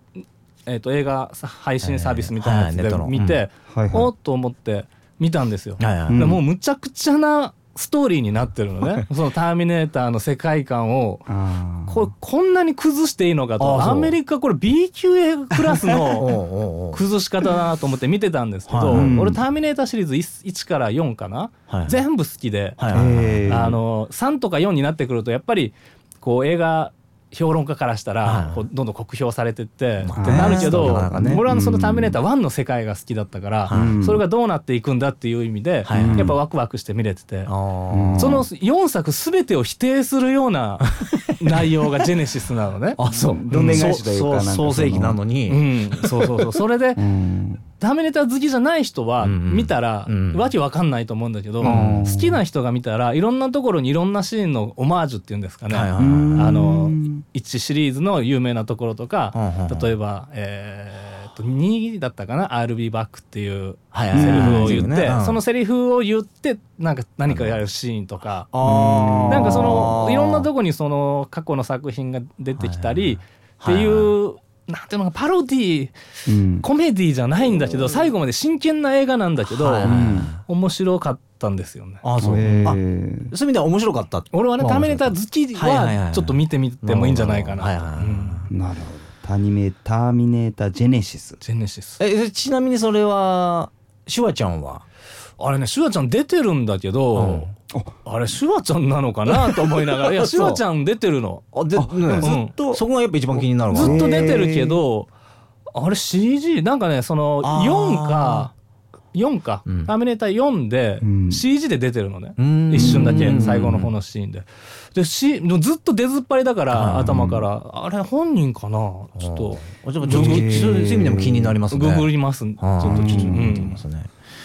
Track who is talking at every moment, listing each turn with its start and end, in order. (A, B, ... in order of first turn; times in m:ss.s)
0:00.7-0:11.2 A
0:01.8-0:03.4 B
0:03.7-0:04.1 C
0:05.8-0:06.3 B
0:06.1-0:06.4 C
0:11.3-0:12.1 C
0:11.9-0:16.4 A
0:13.6-0:14.1 B
0:16.2-0:17.0 B
0:16.9-0:22.8 A
0:18.7-0:19.2 B
0:18.9-0:19.4 C
0:21.7-0:22.0 B
0:22.8-0:23.7 B
0:22.9-0:23.8 C
0:23.5-0:37.5 A
0:28.2-0:28.6 B
0:30.0-0:31.4 B
0:30.2-0:32.2 C
0:33.6-0:34.0 B
0:33.7-0:34.2 C
0:35.8-0:36.4 B
0:35.9-0:36.4 C
0:37.4-0:38.4 B
0:37.9-0:38.4 C
0:38.2-0:43.0 A
0:41.0-0:41.3 B
0:43.0-0:46.6 B
0:43.1-0:45.2 C
0:43.5-0:43.9 A
0:45.5-0:47.0 A
0:47.0-0:47.6 C
0:47.8-1:08.5 A
0:49.2-0:50.5 B
0:51.6-0:52.4 C
0:51.6-0:52.1 B
0:55.7-0:56.5 B
0:56.0-0:57.2 C
0:59.3-0:59.9 B
1:03.9-1:05.4 B
1:04.1-1:04.9 C
1:07.3-1:07.6 B
1:08.5-1:10.5 B
1:08.6-1:09.9 C
1:09.3-1:15.9 A
1:12.6-1:14.1 B
1:16.3-1:16.6 C
1:16.6-1:22.7 A
1:19.5-1:20.4 B
1:19.8-1:20.3 C
1:22.0-1:22.8 B
1:22.2-1:23.3 C
1:23.3-1:28.4 B
1:24.3-1:28.5 A
1:28.5-1:31.4 C
1:31.4-1:32.0 A
1:32.0-1:34.8 B
1:35.4-1:37.5 A
1:37.1-1:37.5 B
1:38.0-1:41.4 A
1:39.3-1:40.6 B
1:41.5-1:44.5 B
1:41.7-1:44.8 C
1:42.2-1:42.5 A
1:43.7-1:45.1 A
1:45.7-1:48.5 A
1:47.4-1:48.5 B
1:49.1-2:00.8 A
1:49.6-1:49.9 B
1:51.0-1:51.4 C
1:52.4-1:53.9 B
1:52.7-1:53.6 C
1:56.7-1:57.4 B
1:59.2-2:04.1 B
2:00.0-2:01.6 C
2:01.7-2:03.8 A
2:02.9-2:03.6 C